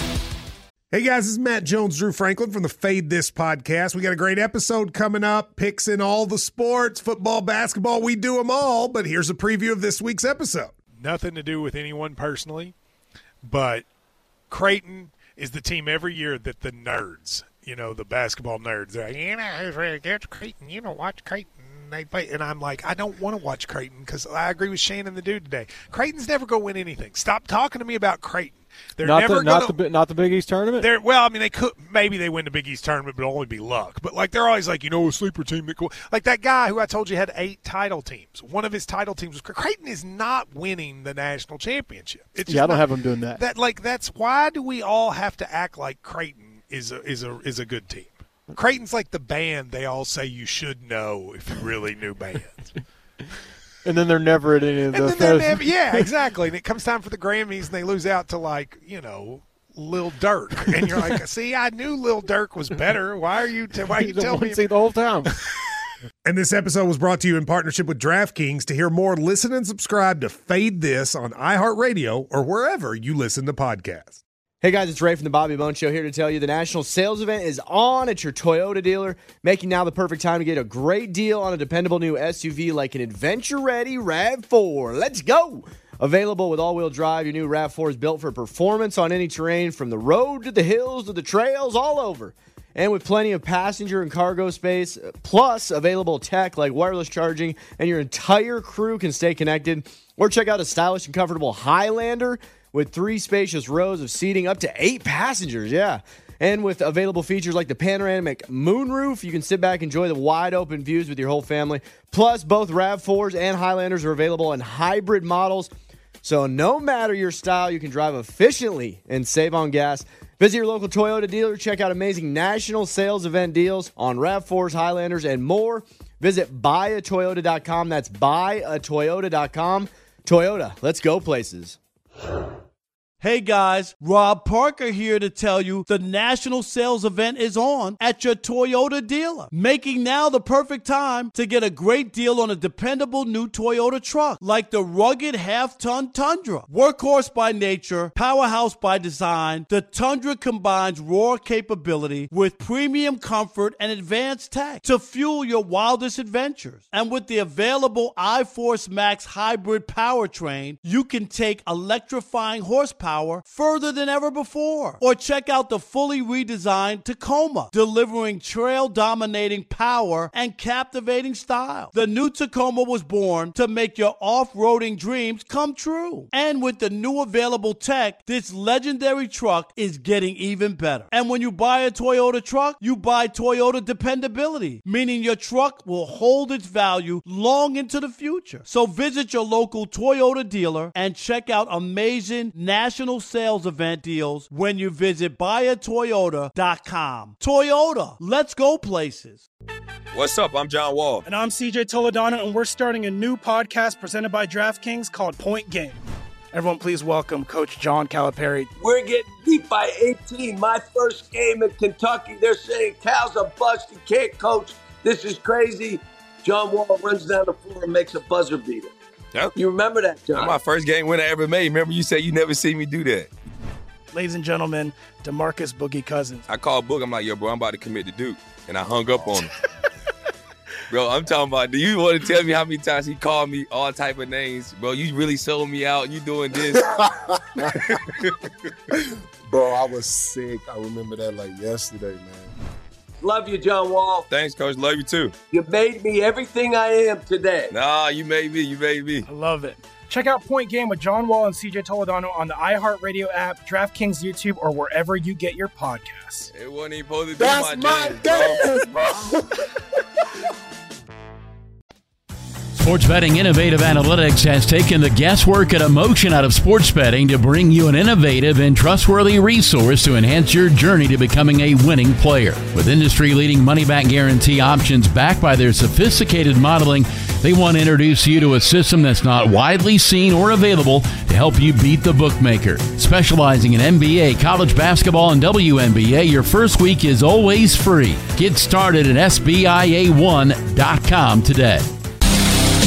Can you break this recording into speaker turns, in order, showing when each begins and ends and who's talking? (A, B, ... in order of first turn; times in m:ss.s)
0:00.9-0:10.8 A
0:10.9-0:12.7 B
0:13.4-0:13.8 B
0:14.5-0:29.8 B
0:29.0-0:30.9 C
0:30.8-0:52.7 B
0:42.4-0:43.4 C
0:53.8-0:56.1 C
0:54.9-1:04.9 B
1:03.9-1:05.3 C
1:06.2-1:14.2 A
1:14.6-1:55.7 D
1:56.2-2:11.8 D
2:13.2-3:19.4 E
3:20.1-3:21.2 F
3:21.2-3:26.0 G
3:26.5-3:28.7 G
3:28.8-3:38.9 H
3:39.5-3:40.5 H
3:40.3-3:43.3 F
3:44.1-3:46.4 G
3:46.5-3:49.5 F
3:50.9-3:56.8 F
3:59.5-4:02.5 I
4:03.2-4:04.3 H
4:04.3-4:05.3 F
4:05.5-4:07.7 H
4:07.7-4:09.2 F
4:09.3-4:16.5 G
4:16.5-4:19.1 F
4:17.6-4:18.0 I
4:22.8-4:51.9 J